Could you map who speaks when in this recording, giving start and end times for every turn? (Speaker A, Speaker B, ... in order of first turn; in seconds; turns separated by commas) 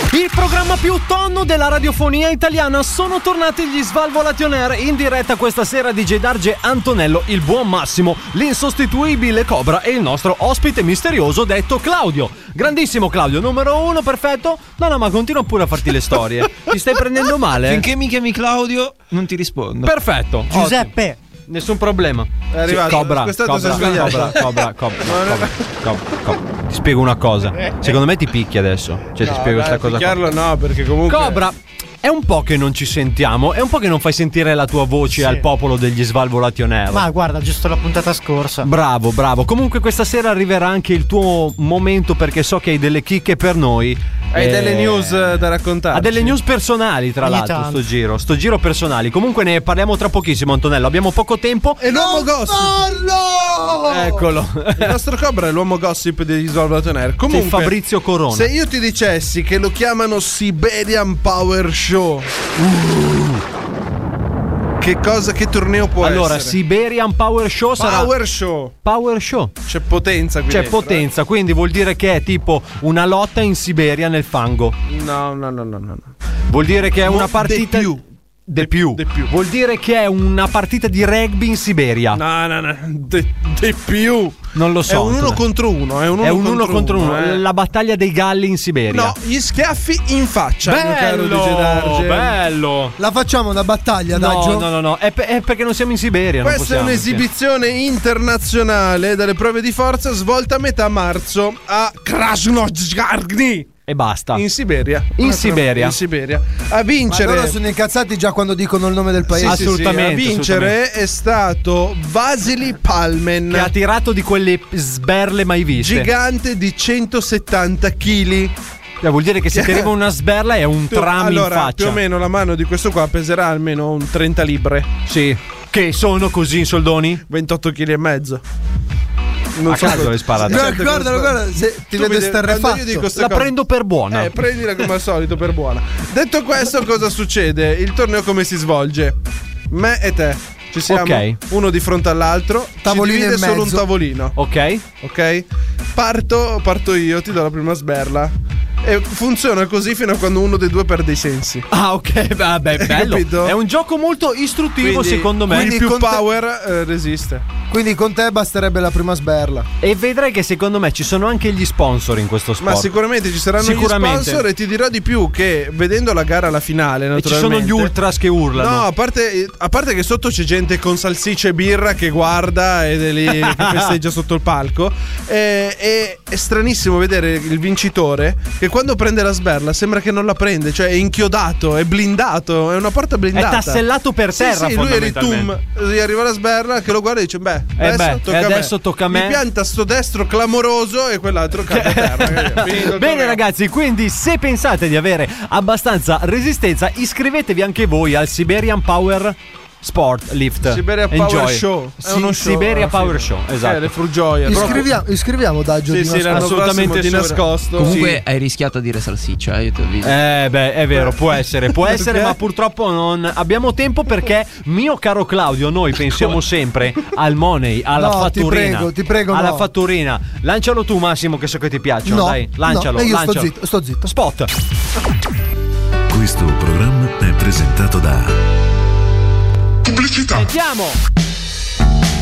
Speaker A: 0.1-17.9, Speaker B: 17.6-19.9, Speaker A: 19.8-21.0, Speaker C: 20.5-21.2, Speaker A: 21.5-30.2, Speaker D: 22.5-25.7, Speaker B: 23.8-24.2, Speaker D: 29.2-31.4, Speaker A: 31.1-37.1, Speaker C: 35.2-35.5, Speaker C: 36.9-38.7, Speaker A: 38.6-51.8, Speaker D: 44.3-46.4, Speaker C: 47.2-47.8, Speaker D: 51.8-52.8, Speaker E: 51.8-54.2, Speaker A: 53.9-55.0, Speaker D: 54.7-57.8, Speaker A: 57.3-58.5, Speaker D: 58.3-62.3, Speaker A: 62.6-63.4, Speaker D: 64.8-66.6, Speaker A: 66.0-68.1, Speaker D: 67.8-68.7, Speaker A: 68.8-69.5, Speaker D: 69.7-71.1, Speaker A: 70.5-74.8, Speaker D: 74.9-76.1, Speaker A: 76.5-82.2, Speaker D: 77.1-78.0, Speaker D: 78.6-79.3, Speaker D: 82.1-87.4, Speaker A: 84.5-85.4, Speaker A: 86.2-89.2, Speaker D: 88.9-92.4, Speaker A: 90.7-93.0, Speaker E: 93.0-94.7, Speaker A: 94.1-97.3, Speaker D: 96.4-103.7, Speaker A: 103.9-104.4, Speaker D: 104.3-107.6, Speaker A: 105.2-106.0, Speaker E: 107.1-109.8, Speaker D: 109.4-113.7, Speaker A: 109.4-110.8, Speaker A: 113.5-116.1, Speaker D: 115.8-118.5, Speaker A: 119.0-122.0, Speaker D: 119.5-119.9, Speaker D: 120.9-124.9, Speaker A: 125.1-127.2, Speaker D: 127.3-128.4, Speaker D: 129.6-131.4, Speaker A: 129.7-130.8, Speaker E: 130.4-133.1, Speaker D: 131.9-133.5, Speaker A: 133.2-134.3, Speaker D: 134.1-139.2, Speaker D: 139.7-144.4, Speaker A: 140.9-141.4, Speaker E: 142.8-143.8, Speaker A: 144.4-144.8, Speaker D: 145.0-151.7, Speaker A: 151.7-156.1, Speaker D: 152.8-153.6, Speaker D: 154.8-157.5, Speaker E: 155.5-156.1, Speaker E: 157.7-159.7, Speaker A: 159.8-162.9, Speaker D: 162.6-167.9, Speaker A: 163.6-164.4, Speaker A: 167.2-168.9, Speaker D: 168.6-183.8, Speaker A: 173.4-173.9, Speaker A: 183.3-185.5, Speaker D: 184.3-193.4, Speaker A: 187.8-189.4, Speaker A: 191.7-203.9, Speaker D: 200.6-204.9, Speaker E: 204.4-206.6, Speaker A: 204.5-204.9, Speaker D: 205.9-208.2, Speaker A: 206.3-208.1, Speaker B: 207.8-210.2, Speaker A: 210.0-223.5, Speaker D: 211.7-212.4, Speaker E: 217.9-219.7, Speaker E: 222.1-224.1, Speaker A: 224.0-224.5, Speaker F: 226.1-228.3, Speaker A: 230.3-231.0